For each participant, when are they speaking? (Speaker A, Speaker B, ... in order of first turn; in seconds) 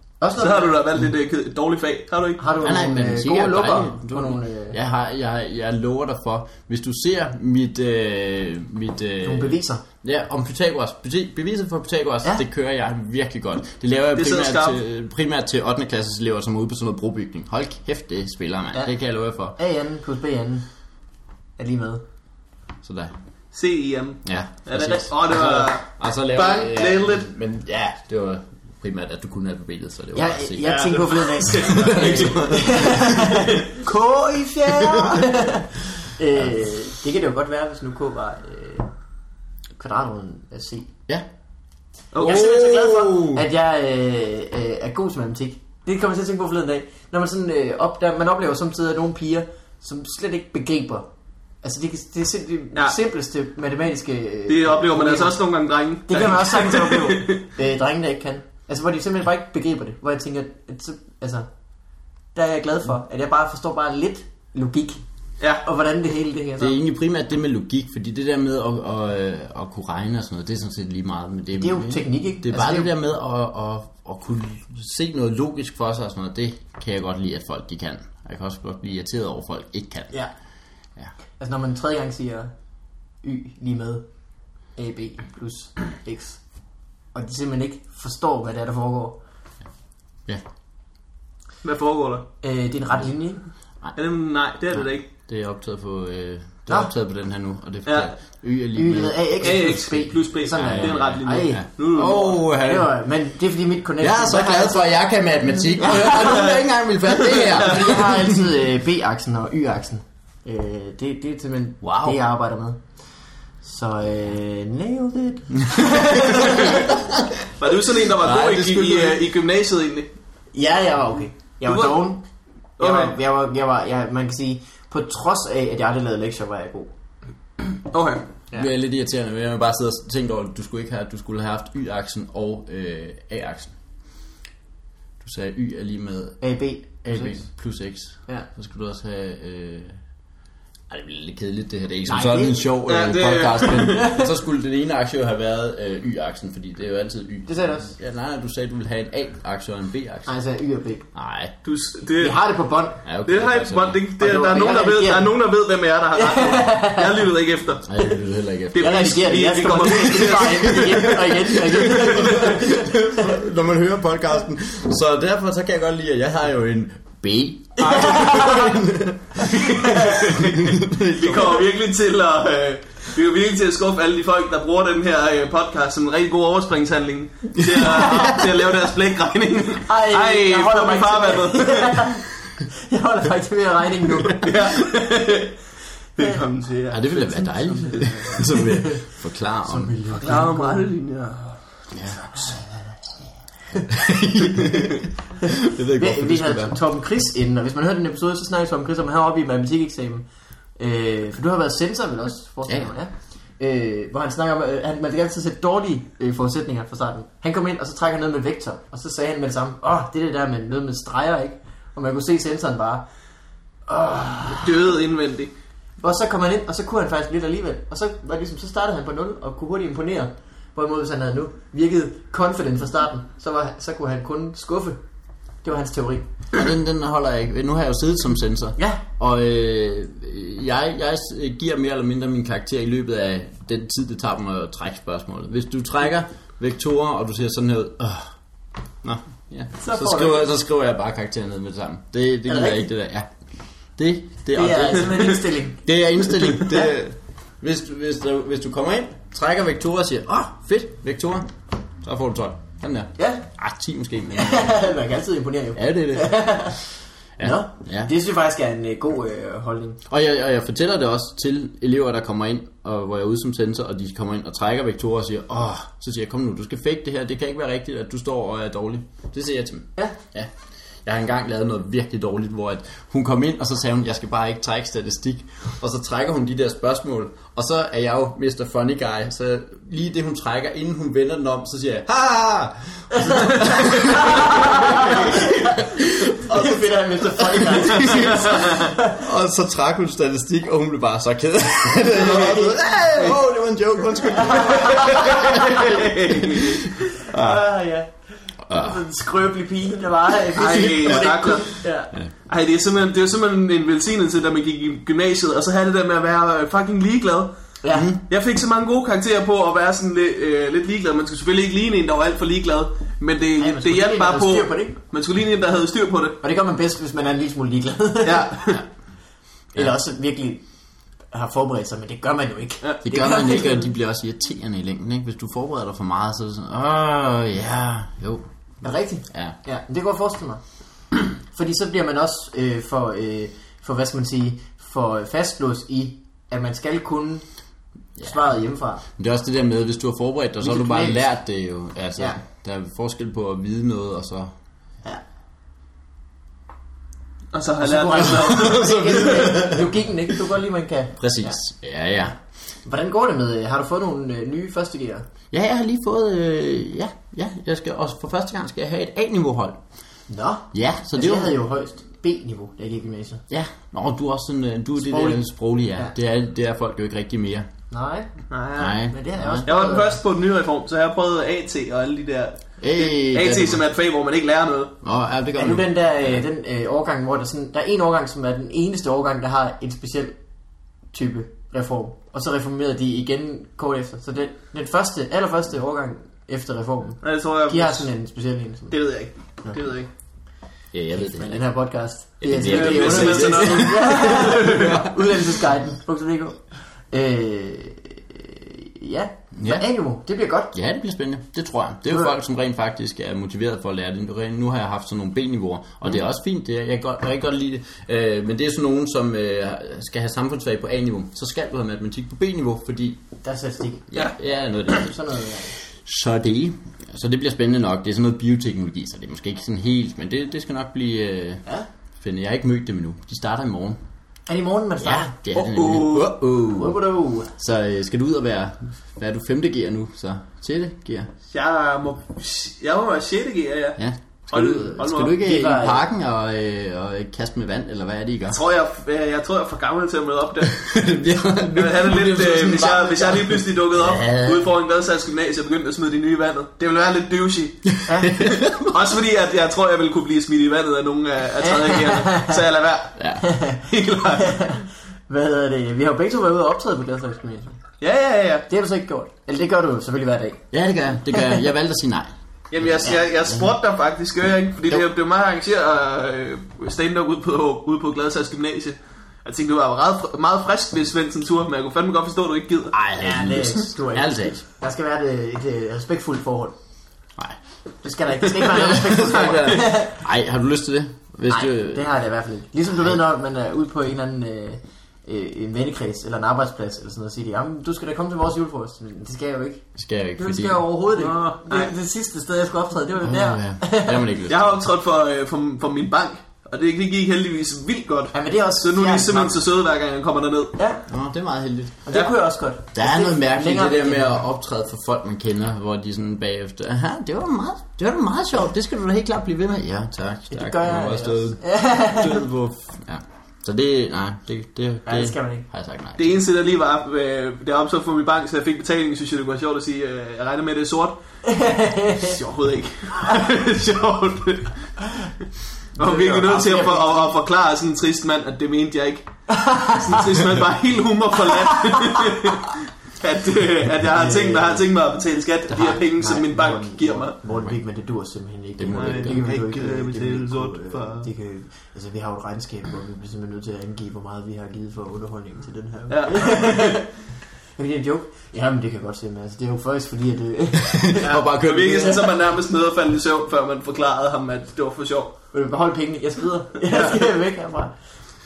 Speaker A: 0.2-0.8, 2.4-4.8, 9.2-9.8, 19.5-20.6, 21.6-22.0, 30.1-38.9, 39.8-40.9, 42.2-51.1, 51.6-55.4, 56.1-61.5, 62.3-65.0, 65.6-66.8, 71.5-72.9, 81.4-82.5, 83.2-84.0, 84.8-86.4, 87.1-89.2, 92.4-93.4, 98.7-101.7, 102.6-105.0, 105.8-106.5, 107.5-112.8, 113.6-116.9, 120.5-122.2, 122.8-126.9, 136.4-137.5, 142.1-142.6, 147.5-147.9, 150.2-151.1, 152.2-153.0, 154.2-155.3, 156.1-157.2, 158.8-163.0, 167.8-168.7, 169.4-170.4, 179.8-184.7, 187.9-189.1, 189.6-190.9, 192.3-192.6, 195.9-213.1, 213.9-214.7, 216.0-225.0, 225.6-226.3, 228.8-229.0, 239.8-240.5, 242.5-242.8, 244.5-245.8, 246.6-246.9, 253.2-253.4, 254.3-260.0, 283.1-289.2, 292.1-292.8, 294.4-295.9, 297.3-298.1, 298.7-302.1, 307.8-308.1, 313.6-315.0, 316.4-318.7, 319.7-320.6, 321.3-323.9, 328.8-330.6, 331.5-337.4, 338.2-339.0, 340.6-341.3, 347.8-351.6, 352.8-355.2, 360.3-363.4, 365.0-365.4, 367.9-368.3, 369.1-370.1, 375.6-380.4, 381.1-389.0, 391.1-400.7, 413.4-414.2, 414.9-415.8, 424.5-426.1, 426.7-427.5, 435.4-436.0, 448.1-448.3, 451.6-452.6, 453.4-453.8, 454.4-457.8, 458.7-460.6, 461.3-461.6, 473.2-476.8, 478.0-480.2, 481.5-489.9, 490.4-494.2, 498.3-499.6, 500.8-501.0, 502.1-504.4, 510.5-512.4, 515.0-515.7, 521.4-522.3, 526.0-527.3, 529.5-530.2, 531.7-532.2, 534.1-534.9, 535.7-547.2, 547.8-551.3, 555.5-557.9
Speaker B: 0.3-2.4, 14.1-14.8, 23.5-27.3, 30.6-32.8, 42.1-42.7, 54.5-57.4, 91.6-92.3, 93.9-95.0, 97.8-98.1, 99.4-102.4, 106.2-106.5, 116.3-116.8, 117.6-120.1, 121.7-122.0, 122.8-123.2, 127.9-128.2, 142.8-144.1, 151.6-152.4, 153.2-158.0, 158.7-162.6, 167.9-168.5, 169.5-182.2, 184.4-185.5, 186.2-188.5, 190.1-191.6, 214.5-215.5, 245.1-245.4, 288.1-288.7, 294.9-296.8, 300.5-301.8, 302.5-307.5, 308.3-316.4, 318.2-318.8, 347.5-349.7, 368.5-369.0, 369.6-374.9, 387.2-388.1, 388.9-390.1, 392.6-394.9, 425.6-426.3, 431.5-434.0, 434.5-435.4, 438.5-440.9, 441.7-454.8, 458.0-458.7, 462.7-473.0, 479.0-479.9, 491.1-491.9, 494.5-500.8, 516.2-521.2, 522.1-524.9, 526.0-537.4, 538.9-541.3, 546.1-546.9, 551.2-555.3, 556.9-557.3
Speaker C: 2.6-19.6, 22.8-23.1, 24.2-33.4, 34.8-35.2, 42.2-43.4, 66.6-80.1, 94.7-99.9, 100.5-102.9, 104.0-108.5, 111.8-112.2, 115.7-117.3, 118.1-119.2, 128.5-133.8, 135.2-136.4, 137.0-140.0, 140.9-150.3, 151.1-151.5, 153.0-154.0, 157.8-159.2, 160.7-161.0, 161.8-171.6, 177.6-178.4, 186.9-190.0, 191.9-192.5, 193.9-196.8, 202.7-202.9, 226.5-238.3, 239.0-243.3, 243.9-245.1, 245.8-254.8, 255.8-256.8, 257.4-258.1, 260.1-270.5, 271.0-297.6, 298.7-299.0, 300.9-301.3, 307.9-308.2, 323.0-328.4, 329.3-329.6, 339.2-344.5, 348.5-349.9, 351.2-352.3, 355.5-359.8, 360.7-361.6, 363.5-367.7, 368.7-369.7, 372.8-373.8, 375.0-376.4, 390.9-391.6, 392.4-395.3, 399.5-399.8, 400.7-413.2, 414.1-415.1, 415.9-421.6, 422.2-424.0, 425.0-427.0, 427.5-431.3, 434.0-438.6, 440.7-444.7, 448.2-448.9, 453.2-453.4, 460.7-463.7, 472.9-474.6, 478.8-482.1, 489.9-490.8, 493.2-494.7, 501.1-502.0, 502.9-516.4, 538.8-539.5, 550.9-552.2